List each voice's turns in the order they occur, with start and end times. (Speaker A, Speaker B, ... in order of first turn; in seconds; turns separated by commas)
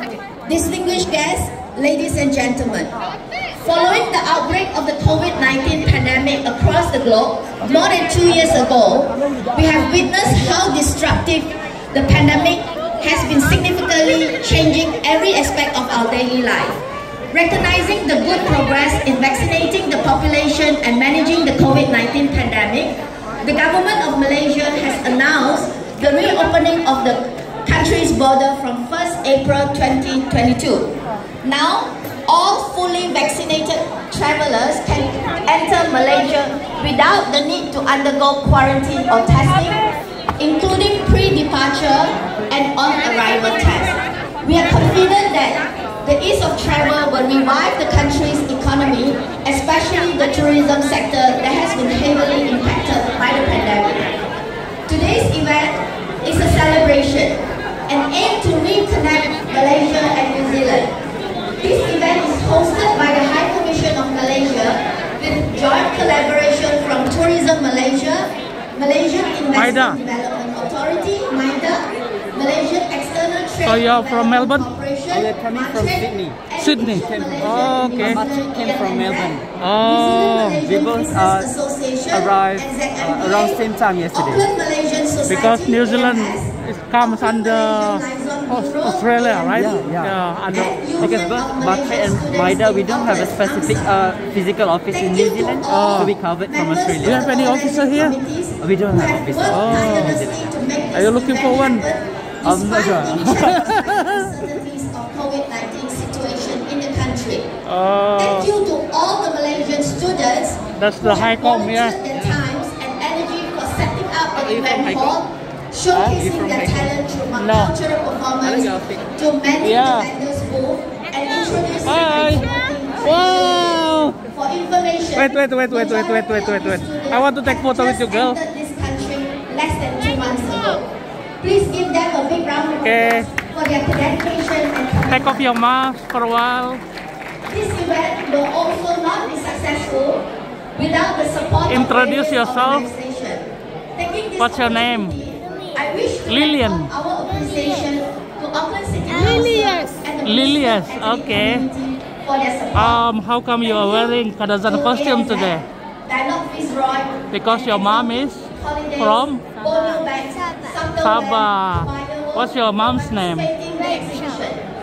Speaker A: 0.4-2.9, Speaker A: 3.5-16.8, Speaker A: 17.3-39.8, Speaker A: 40.4-54.1, Speaker A: 54.9-61.0, Speaker A: 61.6-89.9, Speaker B: 69.5-70.0, Speaker B: 73.6-74.7, Speaker C: 75.1-76.4, Speaker B: 76.6-78.2, Speaker C: 76.9-79.4, Speaker B: 79.6-80.6, Speaker C: 80.6-81.5, Speaker C: 82.1-84.5, Speaker B: 85.3-91.4, Speaker C: 89.5-97.5, Speaker A: 90.5-94.2, Speaker A: 94.8-107.5, Speaker B: 95.7-96.2, Speaker B: 97.0-98.2, Speaker C: 98.6-100.5, Speaker B: 99.5-100.2, Speaker B: 100.9-101.9, Speaker C: 102.4-103.7, Speaker B: 103.3-104.3, Speaker B: 107.6-108.5, Speaker A: 108.2-130.8, Speaker B: 110.8-112.4, Speaker B: 114.3-115.2, Speaker B: 115.9-116.7, Speaker C: 116.5-116.9, Speaker B: 117.3-117.7, Speaker B: 118.5-119.0, Speaker B: 119.6-120.1, Speaker B: 121.8-122.5, Speaker B: 123.0-124.2, Speaker B: 125.2-128.4, Speaker A: 131.4-135.4, Speaker B: 132.8-133.3, Speaker B: 135.1-136.8, Speaker A: 137.5-140.2, Speaker A: 140.7-153.0, Speaker B: 141.7-142.8, Speaker B: 144.4-145.2, Speaker B: 146.2-146.9, Speaker B: 150.2-151.7, Speaker B: 152.7-155.6, Speaker A: 153.6-164.6, Speaker B: 157.3-159.5, Speaker B: 161.0-163.5